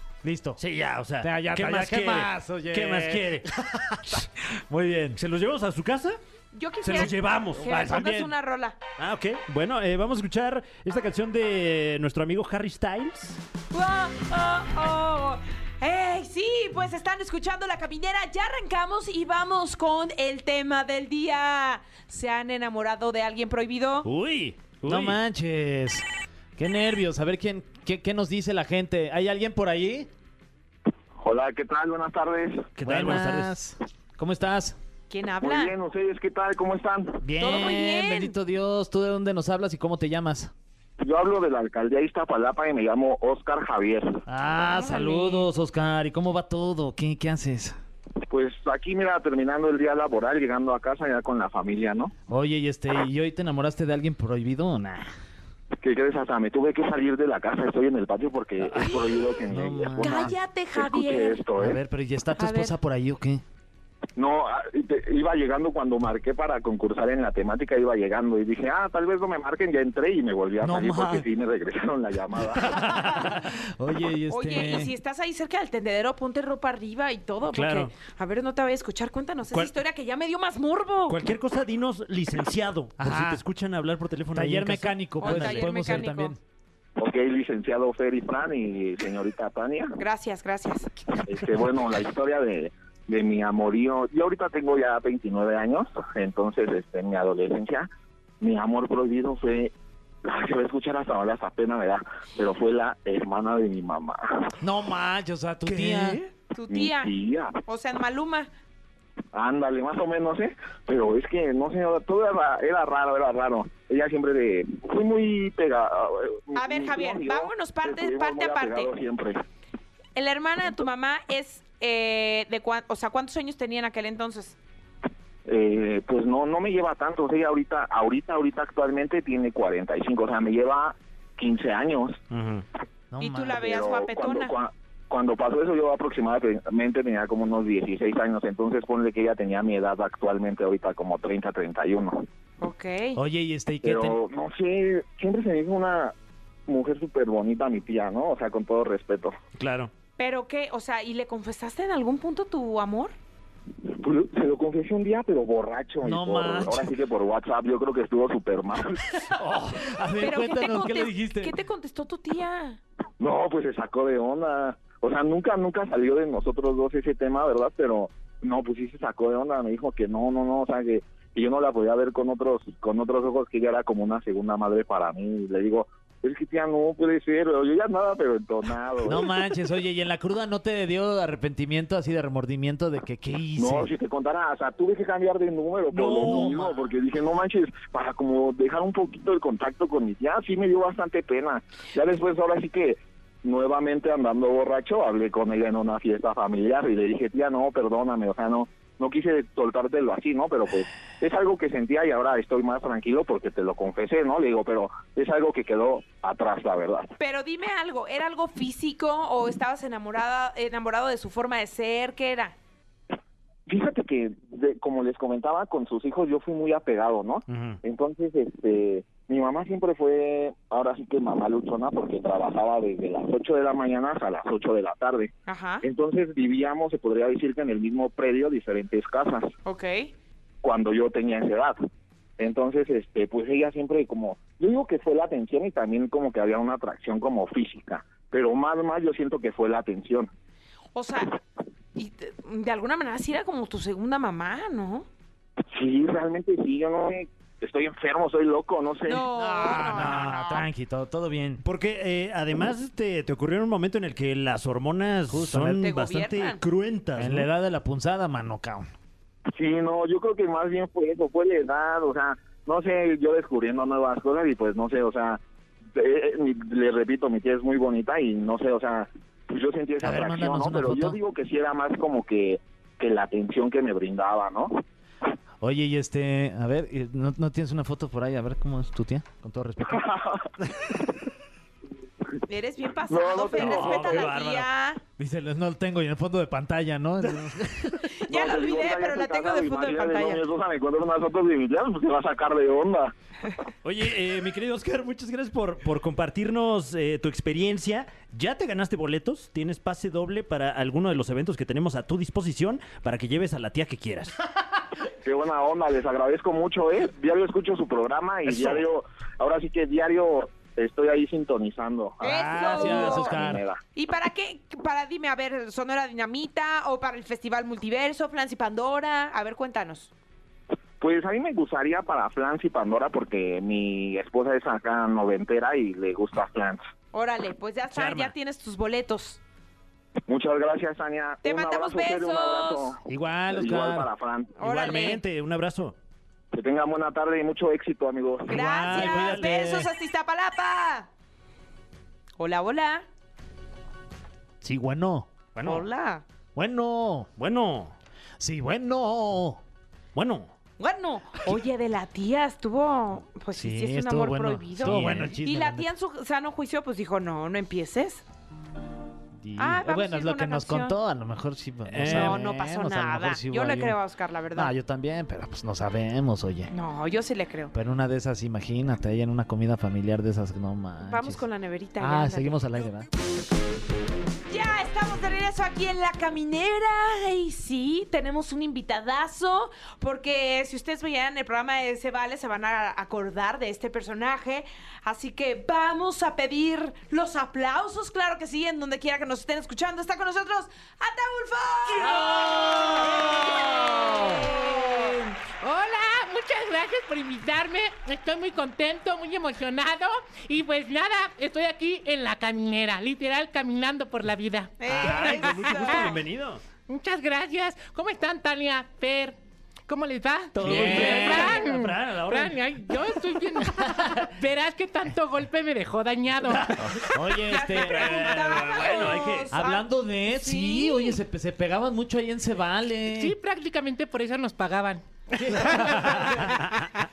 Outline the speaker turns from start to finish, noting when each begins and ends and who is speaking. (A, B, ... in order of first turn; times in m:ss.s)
0:00.2-0:00.6 A
0:00.6-0:03.5 B
0:01.2-0:05.2 A
0:05.1-0:06.2 B
0:06.5-0:08.8 C
0:06.8-0:08.3 B
0:06.9-0:07.1 A
0:07.7-0:08.3 A
0:09.0-0:13.4 B
0:13.7-0:24.1 C
0:24.0-0:25.2 B
0:24.8-0:26.0 A
0:26.6-0:30.1 A
0:31.2-0:32.7 D
0:32.8-0:33.6 B
0:32.8-0:34.8 A
0:35.1-0:35.7 C
0:35.4-0:37.6 D
0:37.2-0:40.5 A
0:37.4-0:38.3 C
0:41.0-0:44.2 D
0:44.3-0:47.8 A
0:44.5-0:45.5 C
0:48.3-0:52.1 D
0:52.3-0:55.1 A
0:55.8-1:01.8 D
0:58.7-1:00.3 A
0:58.8-0:59.4 C
1:00.0-1:01.4 C
1:01.6-1:03.4 A
1:02.3-1:02.7 C
1:04.2-1:13.0 D
1:10.6-1:11.3 A
1:12.6-1:14.9 A
1:14.3-1:21.2 C
1:17.5-1:17.9 B
1:21.1-1:26.1 B
1:23.0-1:23.4 A
1:24.3-1:26.4 A
1:25.2-1:26.4 C
1:27.0-1:30.0 D
1:30.0-1:30.9 C
1:31.2-1:37.9 D
1:38.4-1:39.7 D
1:40.2-1:44.5 D
1:44.6-1:46.2 A
1:45.6-1:46.3 B
1:46.5-1:47.1 C
1:46.7-1:47.6 D
1:47.7-1:48.5 C
1:49.3-1:59.4 D
1:56.5-1:58.9 C
2:00.2-2:04.6 C
2:05.5-2:12.2 D
2:12.3-2:12.6 B
2:13.1-2:13.6 A
2:13.2-2:14.5 C
2:13.6-2:22.2 D
2:22.6-2:23.2 C
2:23.2-2:24.2 A
2:23.8-2:26.1 D
2:26.7-2:29.3 D
2:29.6-2:29.9 B
2:30.2-2:33.1 C
2:33.8-2:39.3 D
2:36.0-2:36.9 A
2:39.3-2:41.6 A
2:40.2-2:42.8 C
2:43.2-2:59.3 D
2:59.0-3:03.9 A
3:03.6-3:27.1 D
3:05.9-3:06.8 B
3:06.2-3:06.7 A
3:27.2-3:32.6 C
3:33.7-3:49.5 D
3:37.5-3:37.8 B
3:45.4-3:45.8 C
3:49.6-3:50.1 C
3:50.6-3:51.8 D
3:52.4-4:00.3 D
4:00.9-4:01.3 C
4:01.9-4:05.1 C
4:05.7-4:09.3 D
4:09.0-4:10.7 C
4:09.3-4:11.6 A
4:11.6-4:17.5 B
4:15.3-4:15.8 A
4:15.8-4:16.6 C
4:17.2-4:18.9 A
4:19.6-4:25.4 D
4:25.9-4:34.8 D
4:30.0-4:31.2 A
4:35.6-4:40.1 A
4:39.8-4:40.5 D
4:42.5-4:45.0 C
4:43.1-4:44.3 D
4:43.4-4:44.7 B
4:45.2-4:48.2 A
4:48.1-4:50.4 C
4:48.3-4:53.1 D
4:53.8-5:04.3 B
5:05.2-5:13.8 D
5:08.4-5:08.8 B
5:12.2-5:13.4 C
5:12.2-5:13.6 A
5:13.9-5:20.1 C
5:21.0-5:26.8 D
5:27.1-5:29.4 C
5:27.9-5:28.3 B
5:30.3-5:34.6 D
5:31.4-5:32.9 C
5:33.1-5:34.1 A
5:34.6-5:35.2 C
5:34.6-5:35.9 B
5:36.5-5:38.6 D
5:38.5-5:39.8 B
5:38.5-5:41.1 C
5:38.5-5:39.9 A
5:42.4-5:43.1 C
5:44.6-5:45.4 A
5:45.6-5:45.8 B
5:45.6-5:46.2 C
5:46.6-5:47.3 A
5:47.4-5:47.9 B
5:48.4-5:49.6 A
5:50.1-5:50.5 B
5:50.8-5:58.2 C
5:53.6-5:55.9 A
5:54.8-5:55.4 B
5:59.4-6:04.0 A
5:59.6-6:00.9 C
6:01.9-6:02.4 B
6:01.9-6:04.7 C
6:04.6-6:06.7 A
6:06.7-6:07.7 C
6:07.7-6:11.4 A
6:11.0-6:12.6 C
6:12.0-6:13.1 A
6:14.5-6:35.3 C
6:32.1-6:46.2 E
6:44.8-6:46.2 C
6:44.9-6:46.6 B
6:46.9-6:49.4 E
6:49.9-6:57.0 E
6:50.6-6:52.6 B
6:50.6-6:51.8 A
6:53.8-6:54.1 A
6:56.8-6:58.7 A
6:57.5-7:01.1 C
6:57.7-6:59.5 B
6:59.5-7:03.3 A
7:03.1-7:07.0 E
7:05.5-7:06.5 A
7:06.1-7:06.4 B